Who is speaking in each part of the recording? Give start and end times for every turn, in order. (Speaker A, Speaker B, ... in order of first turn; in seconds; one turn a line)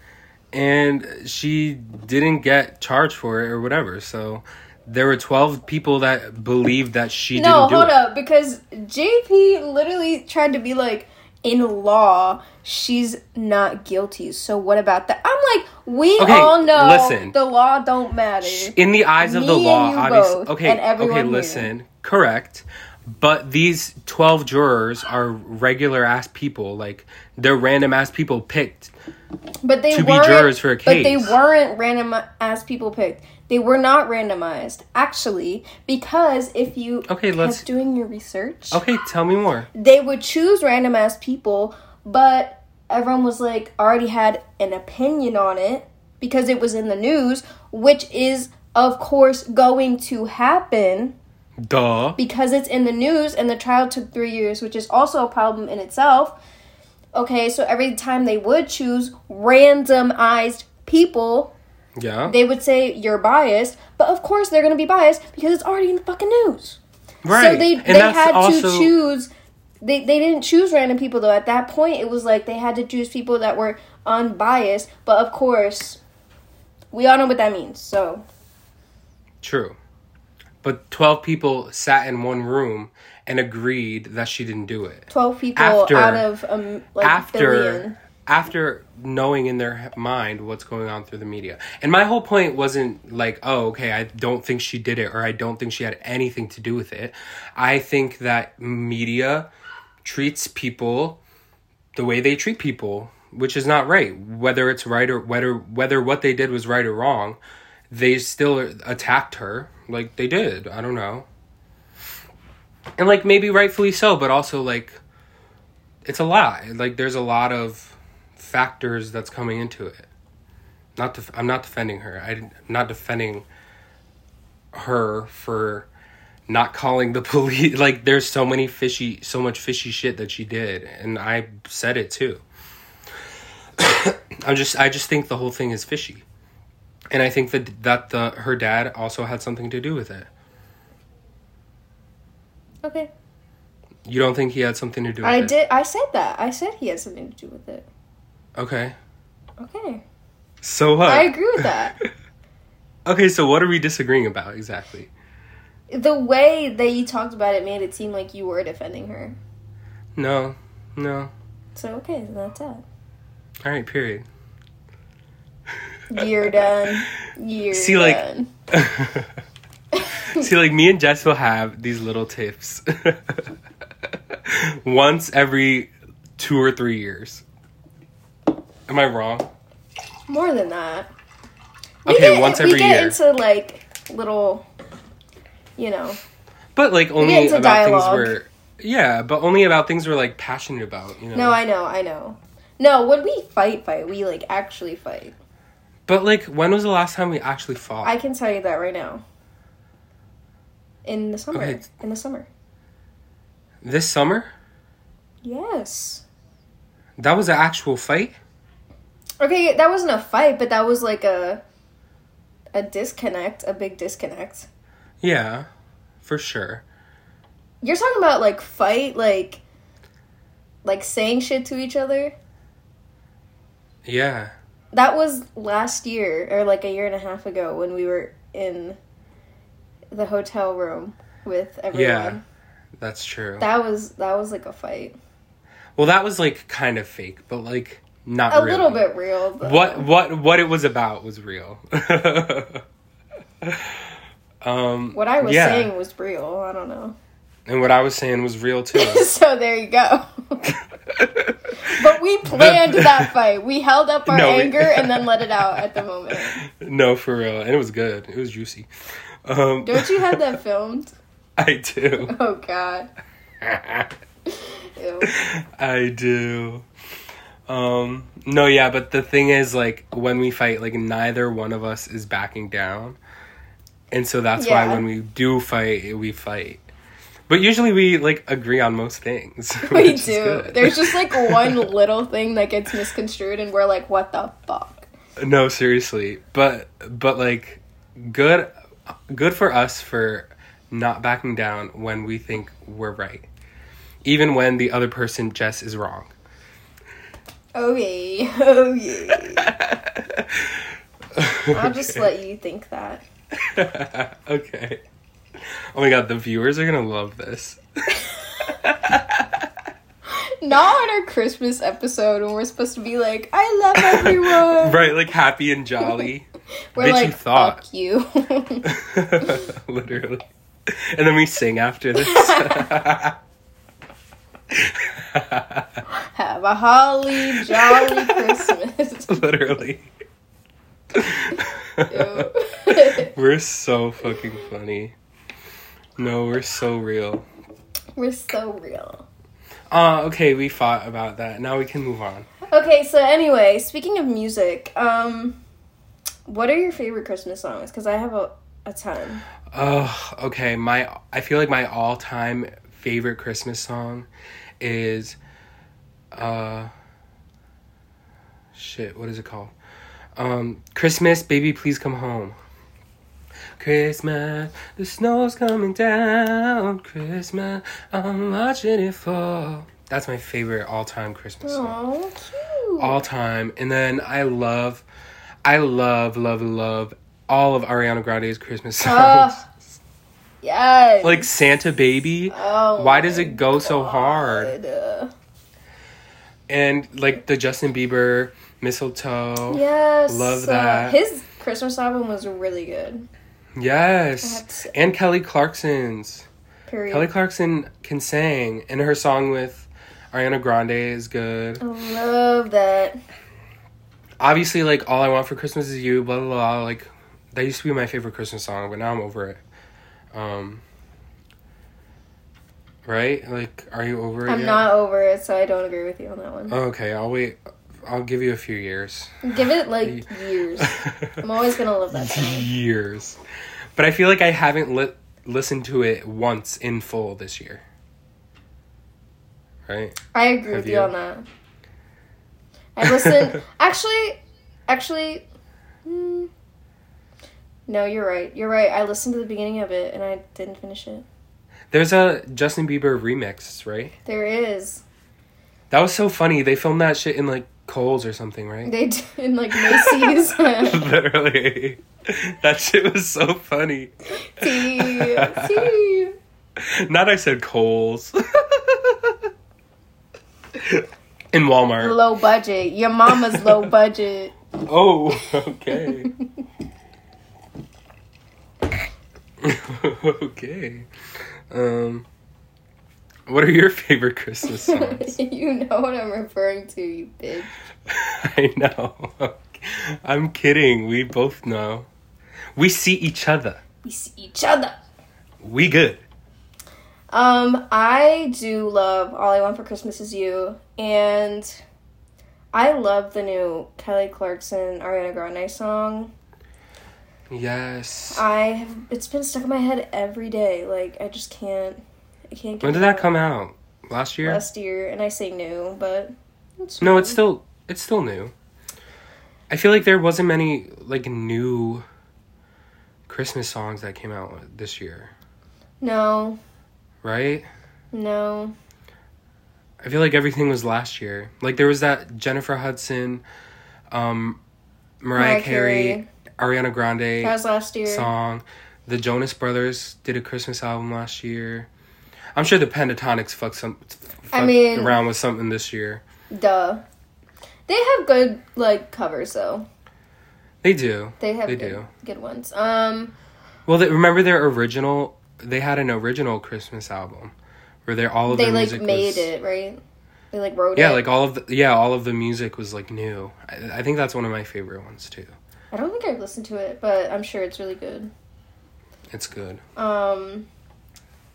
Speaker A: 0.5-7.9
Speaker B: 7.3-21.7
Speaker A: 16.2-17.3
Speaker A: 18.4-28.9
Speaker B: 29.6-38.8
Speaker A: 29.9-31.3
Speaker A: 37.1-37.6
Speaker A: 38.7-39.7
Speaker B: 39.7-51.1
Speaker A: 51.6-52.2
Speaker B: 52.2-56.4
Speaker B: 57.1-61.5
Speaker A: 62.0-62.4
Speaker B: 62.2-69.3
Speaker A: 67.2-68.9
Speaker B: 69.8-76.0
Speaker B: 76.9-78.2
Speaker A: 79.4-79.8
Speaker A: 80.6-86.2
Speaker B: 85.1-88.0
Speaker A: 87.0-99.5
Speaker A: 100.0-101.2
Speaker A: 101.9-107.4
Speaker A: 107.9-111.3
Speaker A: 113.0-115.0
Speaker A: 116.0-120.1
Speaker A: 121.0-123.5
Speaker A: 124.7-125.9
Speaker A: 126.5-132.4
Speaker A: 133.8-136.2
Speaker A: 137.1-140.3
Speaker B: 142.8-143.1
Speaker A: 144.0-145.5
Speaker B: 145.2-147.9
Speaker A: 148.6-148.9
Speaker B: 149.6-150.0
Speaker A: 150.6-152.1
Speaker B: 151.1-151.9
Speaker A: 153.1-155.1
Speaker B: 155.9-159.4
Speaker A: 160.2-161.3
Speaker B: 161.7-162.8
Speaker A: 163.6-164.2
Speaker B: 166.1-168.5
Speaker A: 167.7-169.4
Speaker B: 169.9-170.4
Speaker A: 170.3-177.4
Speaker A: 178.9-179.5
Speaker B: 180.3-181.1
Speaker B: 182.0-184.6
Speaker A: 182.1-183.2
Speaker B: 185.8-186.2
Speaker A: 186.7-191.6
Speaker B: 187.2-188.3
Speaker B: 191.3-195.3
Speaker A: 196.1-198.1
Speaker B: 198.0-199.2
Speaker B: 201.0-202.5
Speaker A: 201.5-201.8
Speaker A: 203.8-204.5
Speaker B: 205.4-206.2
Speaker A: 207.2-208.4
Speaker B: 209.4-211.6
Speaker B: 212.7-214.7
Speaker A: 215.2-215.7
Speaker A: 216.2-216.8
Speaker B: 217.8-219.6
Speaker B: 220.8-222.3
Speaker A: 224.0-224.5
Speaker B: 224.9-229.0
Speaker B: 230.1-232.4
Speaker A: 231.9-232.4
Speaker A: 233.0-233.7
Speaker B: 233.6-235.1
Speaker A: 236.0-239.0
Speaker B: 238.5-240.1
Speaker A: 239.6-242.8
Speaker A: 243.6-245.9
Speaker B: 245.1-247.2
Speaker A: 247.7-249.3
Speaker B: 248.9-250.8
Speaker A: 250.7-253.3
Speaker B: 251.8-256.6
Speaker A: 254.3-258.9
Speaker A: 259.4-260.6
Speaker B: 259.8-261.1
Speaker A: 261.6-262.3
Speaker B: 262.2-263.1
Speaker A: 263.6-264.1
Speaker B: 264.5-265.3
Speaker A: 265.2-266.9
Speaker A: 267.7-273.2
Speaker A: 274.1-276.9
Speaker B: 274.5-275.0
Speaker A: 277.5-281.9
Speaker B: 279.8-285.0
Speaker A: 285.4-293.5
Speaker A: 294.2-296.3
Speaker B: 297.7-299.7
Speaker A: 299.3-302.3
Speaker B: 301.7-303.2
Speaker A: 303.6-305.0
Speaker A: 305.6-307.8
Speaker B: 308.2-308.7
Speaker A: 308.6-309.7
Speaker B: 310.3-315.0
Speaker A: 313.9-317.8
Speaker B: 316.9-318.9
Speaker A: 318.8-323.4
Speaker B: 322.1-322.9
Speaker A: 324.7-326.0
Speaker B: 326.1-329.4
Speaker A: 327.4-328.7
Speaker A: 329.3-330.1
Speaker A: 331.1-335.1
Speaker B: 332.1-333.3
Speaker A: 336.2-337.4
Speaker B: 338.2-339.2
Speaker A: 339.9-342.5
Speaker B: 342.7-345.6
Speaker B: 346.4-349.4
Speaker A: 349.7-354.3
Speaker A: 354.8-355.4
Speaker A: 356.3-356.9
Speaker A: 358.7-359.7
Speaker A: 360.4-362.6
Speaker A: 363.8-371.9
Speaker B: 371.6-373.2
Speaker A: 373.0-375.0
Speaker A: 375.6-379.6
Speaker B: 379.0-379.7
Speaker B: 380.6-381.5
Speaker A: 381.2-384.7
Speaker B: 382.5-385.3
Speaker A: 386.7-391.2
Speaker B: 389.7-393.3
Speaker A: 393.8-396.5
Speaker B: 394.4-394.9
Speaker B: 396.9-397.3
Speaker A: 397.1-401.8
Speaker B: 401.8-403.2
Speaker A: 404.4-409.6
Speaker A: 410.3-410.8
Speaker A: 413.1-414.9
Speaker B: 414.5-416.8
Speaker A: 416.7-419.4
Speaker B: 419.4-422.7
Speaker A: 420.0-421.4
Speaker A: 422.1-423.4
Speaker A: 423.9-427.8
Speaker A: 429.9-431.1
Speaker B: 430.3-431.4
Speaker B: 432.9-435.4
Speaker A: 433.0-433.6
Speaker B: 436.0-436.5
Speaker B: 437.9-441.2
Speaker A: 441.9-444.1
Speaker B: 444.2-445.0
Speaker A: 445.9-448.9
Speaker B: 448.8-451.0
Speaker A: 449.7-455.9
Speaker B: 454.4-456.4
Speaker A: 456.8-459.5
Speaker A: 460.7-462.2
Speaker B: 462.0-464.5
Speaker A: 463.3-463.9
Speaker A: 464.8-466.3
Speaker B: 465.9-466.4
Speaker A: 469.6-471.1
Speaker A: 471.7-472.2
Speaker A: 473.5-475.4
Speaker B: 474.6-477.7
Speaker A: 478.1-482.1
Speaker A: 482.8-483.8
Speaker B: 484.0-484.9
Speaker A: 485.6-486.2
Speaker B: 487.3-491.8
Speaker B: 492.7-496.3
Speaker A: 497.5-498.4
Speaker B: 498.3-503.3
Speaker A: 502.8-504.6
Speaker B: 504.4-507.4
Speaker A: 507.0-508.5
Speaker A: 509.7-512.0
Speaker A: 513.3-515.3
Speaker B: 516.0-516.6
Speaker A: 517.2-517.7
Speaker B: 518.1-518.7
Speaker A: 520.0-523.4
Speaker A: 524.1-524.6
Speaker A: 525.2-531.9
Speaker B: 525.4-526.2
Speaker B: 527.4-528.3
Speaker A: 532.5-536.2
Speaker B: 534.5-535.2
Speaker B: 536.5-537.0
Speaker B: 537.9-539.9
Speaker A: 540.8-542.1
Speaker B: 541.4-543.3
Speaker A: 543.9-547.5
Speaker A: 548.0-549.5
Speaker B: 548.5-550.0
Speaker B: 550.5-551.2
Speaker A: 551.0-555.5
Speaker B: 555.9-558.3
Speaker A: 559.3-559.8
Speaker B: 560.0-560.7